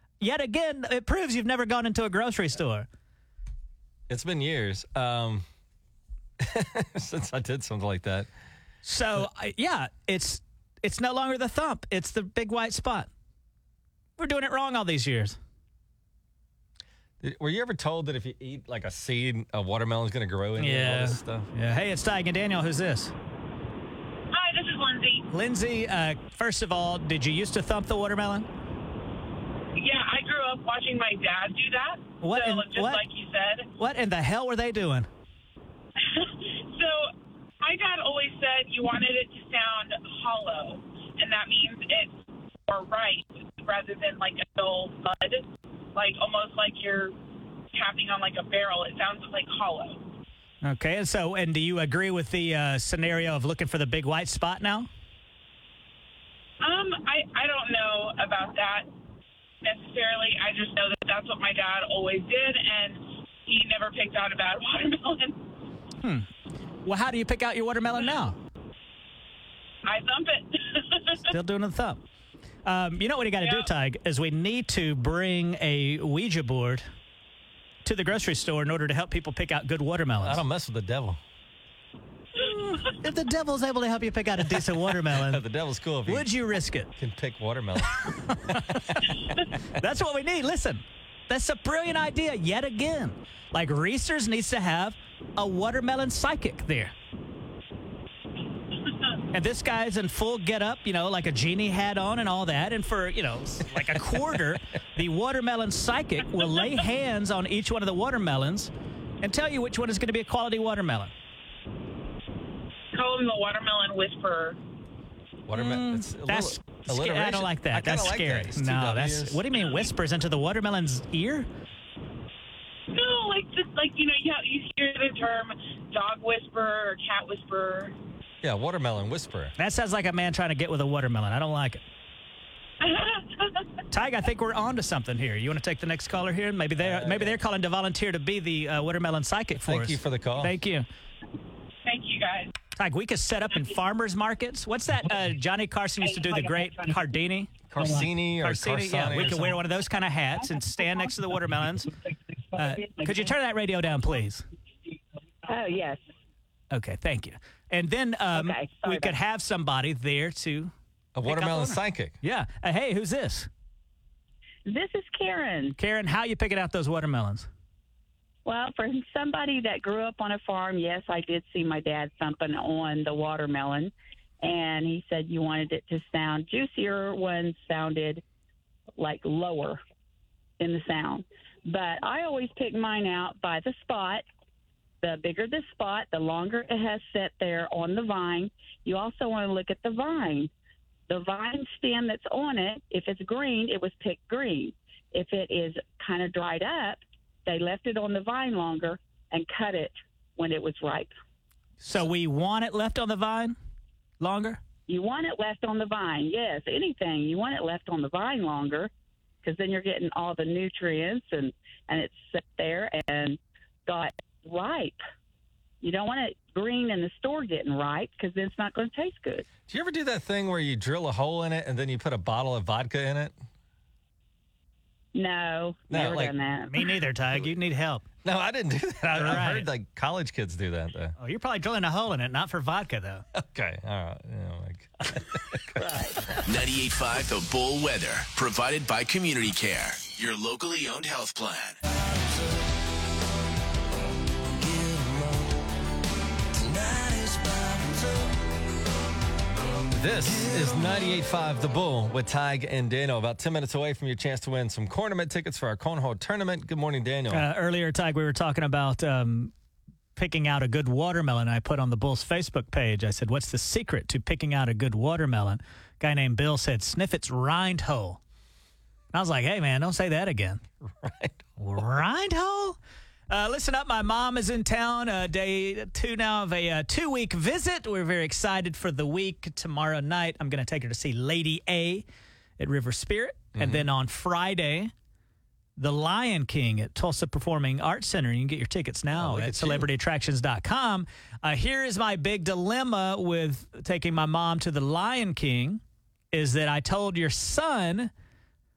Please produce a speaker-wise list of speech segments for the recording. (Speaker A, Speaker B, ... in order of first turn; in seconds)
Speaker A: 0.2-2.9, 8.8-13.1, 14.2-15.4, 20.6-23.1, 25.3-28.5, 32.2-33.0, 33.8-35.1, 50.6-54.9, 66.0-66.3, 66.8-68.4, 71.3-72.0, 72.7-76.8, 77.8-80.4, 82.8-85.4, 86.1-86.9, 88.3-89.0, 89.8-96.9, 99.3-108.7, 109.2-111.1, 115.5-121.5, 129.6-131.8, 133.9-140.8, 142.8-151.9, 152.5-154.4, 156.7-160.7, 161.2-163.5, 165.7-167.5, 201.8-203.6, 204.2-204.6, 226.7-228.0, 229.1-229.7, 231.2-233.2, 235.8-236.2, 257.3-259.5, 260.1-268.2, 269.1-270.6, 271.6-272.8, 273.3-282.1, 282.6-284.9, 285.8-295.8, 296.3-298.1
Speaker B: 4.1-5.5, 6.4-8.3, 17.2-21.5, 80.2-81.2, 84.6-86.3, 87.0-89.1, 103.9-104.3, 115.5-119.4, 128.4-129.5, 136.8-137.4, 139.6-140.5, 147.7-149.6, 161.1-162.2, 219.7-223.3, 225.9-226.3, 228.2-231.1, 233.3-236.3, 244.8-245.2, 246.7-248.0, 249.9-257.4, 270.8-271.5, 283.5-283.9, 289.1-289.9
Speaker C: 24.3-25.3, 29.8-33.7, 36.0-42.2, 42.7-47.1, 47.7-50.0, 56.6-58.9, 59.6-65.4, 69.8-71.2, 73.4-73.7, 112.9-114.6, 122.9-127.9, 132.8-133.6, 141.8-142.5
Speaker D: 155.4-156.0, 158.3-159.2, 164.7-165.7, 168.4-178.2, 178.9-179.8, 180.6-184.2, 185.0-190.5, 191.1-201.1, 204.9-208.9, 209.4-215.0, 215.8-219.5, 225.1-226.9
Speaker E: 236.4-241.8